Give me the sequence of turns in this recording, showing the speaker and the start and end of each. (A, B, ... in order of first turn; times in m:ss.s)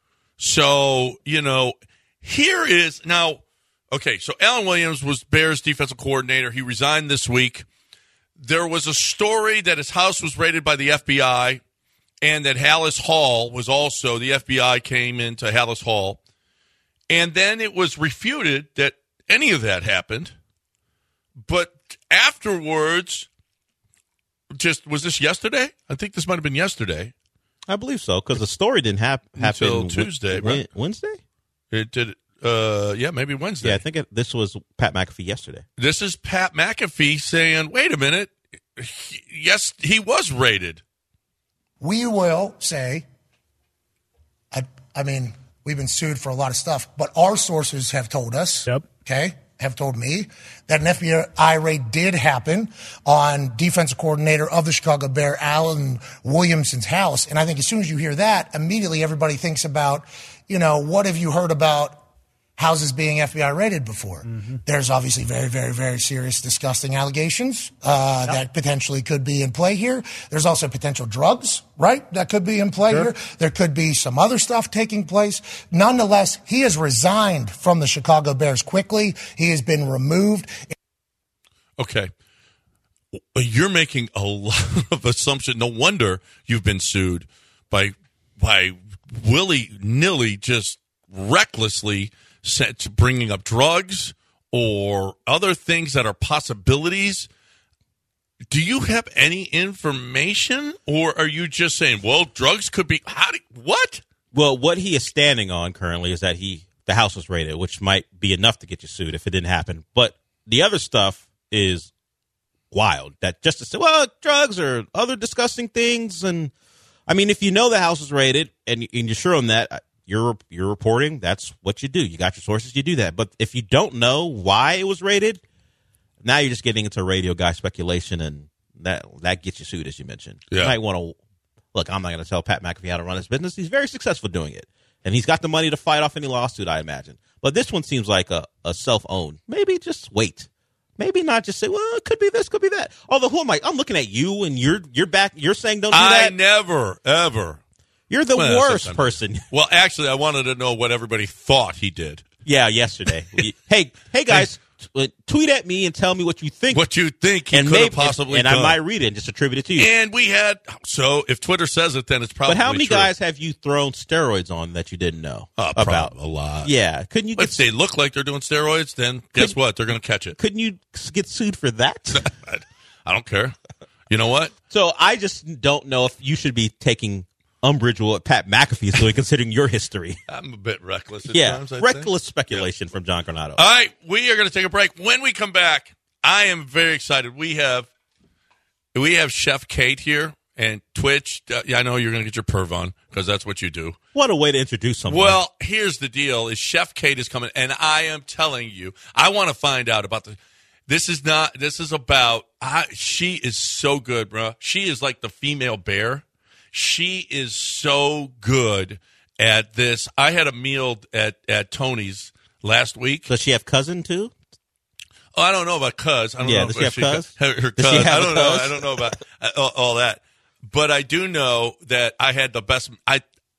0:00.4-0:07.6 A
0:08.4-0:11.6 A
0:12.2-0:16.2 A
0:17.1-0:20.3 A
0:21.4-0:23.3 A
0:24.5-0:27.1 A
0:27.7-0:31.2 B
0:29.4-0:30.6 A
0:31.7-0:33.8 A
0:33.6-0:35.6 B
0:35.8-0:40.8 A
0:41.8-0:43.0 C
0:44.5-1:02.0 C
1:02.6-1:20.7 C
1:21.8-1:22.1 A
1:23.2-1:37.3 A
1:38.5-1:44.0 A
1:44.3-1:51.9 B
1:52.7-1:56.5 B
1:57.1-2:05.4 B
2:06.2-2:11.2 B
2:10.5-2:10.8 A
2:11.7-2:26.3 B
2:25.9-2:27.6 A
2:28.1-2:29.4 B
2:28.4-2:32.2 A
2:32.4-2:36.8 B
2:36.7-2:38.8 A
2:37.5-2:39.9 B
2:39.8-2:43.1 A
2:42.5-2:46.1 B
2:45.6-2:46.7 A
2:46.6-2:47.6 B
2:47.4-2:50.4 A
2:50.4-2:52.3 B
2:52.1-2:53.5 A
2:54.1-2:54.5 A
2:54.7-3:00.2 B
3:00.3-3:02.7 A
3:01.3-3:03.6 B
3:03.6-3:07.9 A
3:08.9-3:14.0 A
3:14.1-3:15.4 B
3:15.1-3:20.4 A
3:20.9-3:33.3 A
3:33.3-3:34.3 B
3:35.3-3:43.2 A
3:36.4-3:39.2 B